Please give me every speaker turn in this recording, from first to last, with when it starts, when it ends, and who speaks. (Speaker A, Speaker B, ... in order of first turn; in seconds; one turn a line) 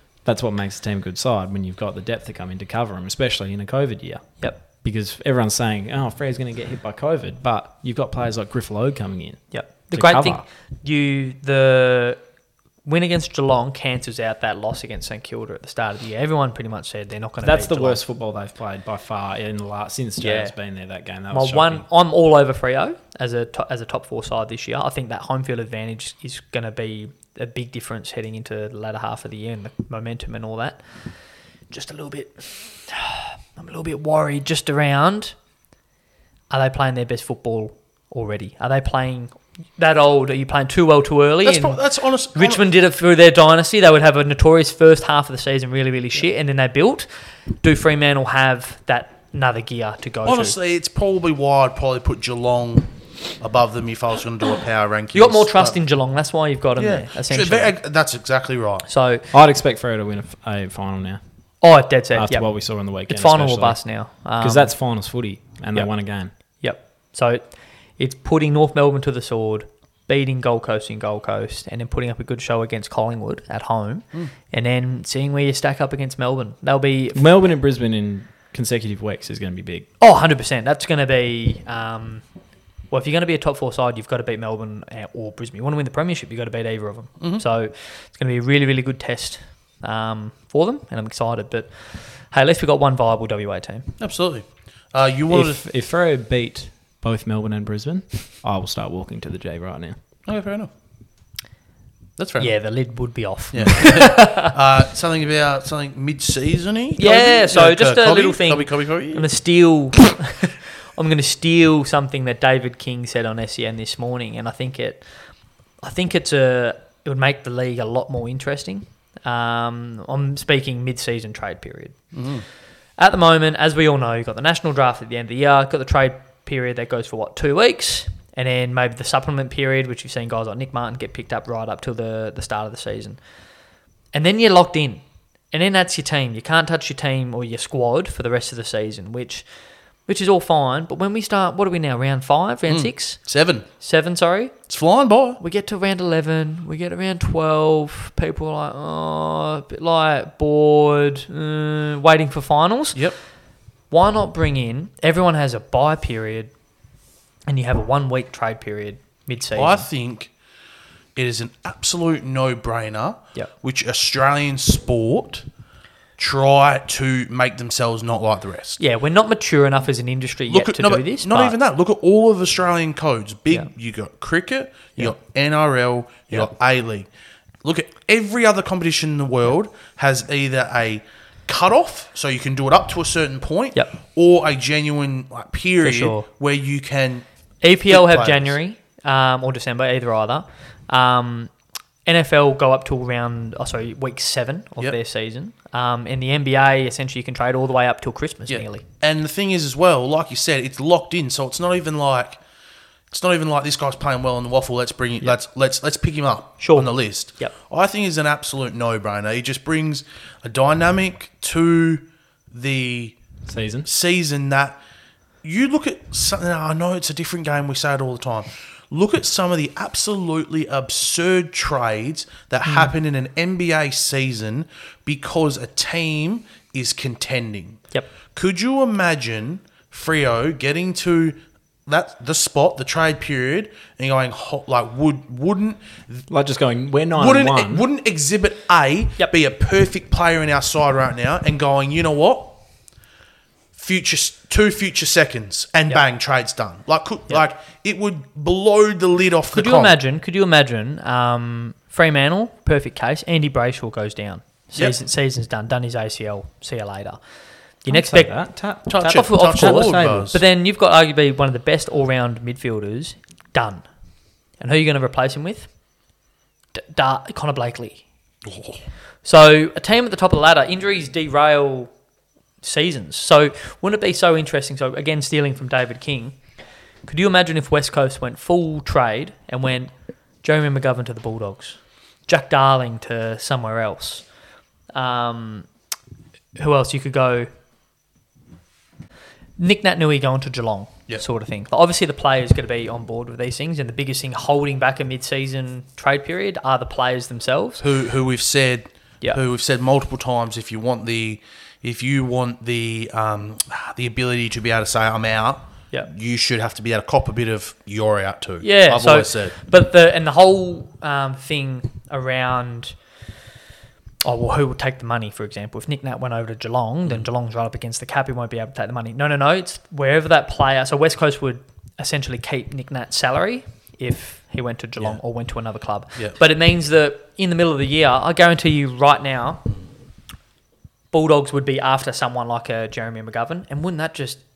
Speaker A: 0.2-10.4
Speaker B: 9.5-12.2
Speaker B: 12.8-18.0
Speaker A: 17.4-21.9
Speaker B: 20.2-20.6
Speaker B: 21.3-30.9
Speaker B: 31.7-35.4
Speaker B: 36.5-41.8
Speaker C: 41.4-42.6
Speaker B: 42.3-50.6
Speaker C: 50.2-55.8
Speaker B: 55.1-57.8
Speaker C: 56.8-58.9
Speaker B: 58.9-59.3
Speaker A: 59.3-61.2
Speaker B: 61.6-64.8
Speaker A: 62.1-66.3
Speaker B: 65.7-77.3
Speaker A: 77.2-79.9
Speaker B: 80.0-82.2
Speaker B: 82.9-93.9
Speaker C: 94.0-95.6
Speaker A: 95.3-100.0
Speaker C: 100.3-100.7
Speaker C: 102.2-102.5
Speaker B: 102.4-104.5
Speaker C: 103.5-109.3
Speaker B: 107.0-115.1
Speaker B: 115.8-122.0
Speaker C: 122.1-122.5
Speaker B: 123.0-133.2
Speaker B: 134.1-139.5
Speaker B: 140.1-143.2
Speaker C: 142.7-143.7
Speaker B: 143.8-144.6
Speaker C: 144.7-145.4
Speaker B: 145.4-153.1
Speaker B: 153.9-156.5
Speaker B: 157.5-159.9
Speaker C: 159.6-160.3
Speaker C: 161.2-165.5
Speaker C: 166.2-168.8
Speaker B: 168.8-171.6
Speaker C: 170.5-177.1
Speaker C: 177.6-187.2
Speaker B: 185.8-186.3
Speaker B: 187.6-191.5
Speaker C: 187.9-188.5
Speaker B: 192.1-198.8
Speaker C: 198.5-202.4
Speaker C: 203.1-213.2
Speaker B: 206.6-207.5
Speaker A: 213.5-213.9
Speaker C: 213.8-214.8
Speaker C: 215.4-236.3
Speaker A: 236.3-237.9
Speaker C: 237.2-242.6
Speaker C: 243.8-250.0
Speaker B: 249.5-257.2
Speaker B: 257.8-263.9
Speaker A: 257.9-260.3
Speaker C: 258.9-260.4
Speaker B: 264.6-265.7
Speaker B: 266.8-268.0
Speaker C: 268.5-268.8
Speaker B: 269.2-271.9
Speaker B: 272.6-276.4
Speaker B: 277.1-284.3
Speaker B: 284.9-285.7
Speaker B: 286.6-287.5
Speaker B: 289.6-297.8
Speaker C: 297.8-309.6
Speaker B: 308.6-313.0
Speaker B: 314.2-329.7
Speaker B: 331.1-334.4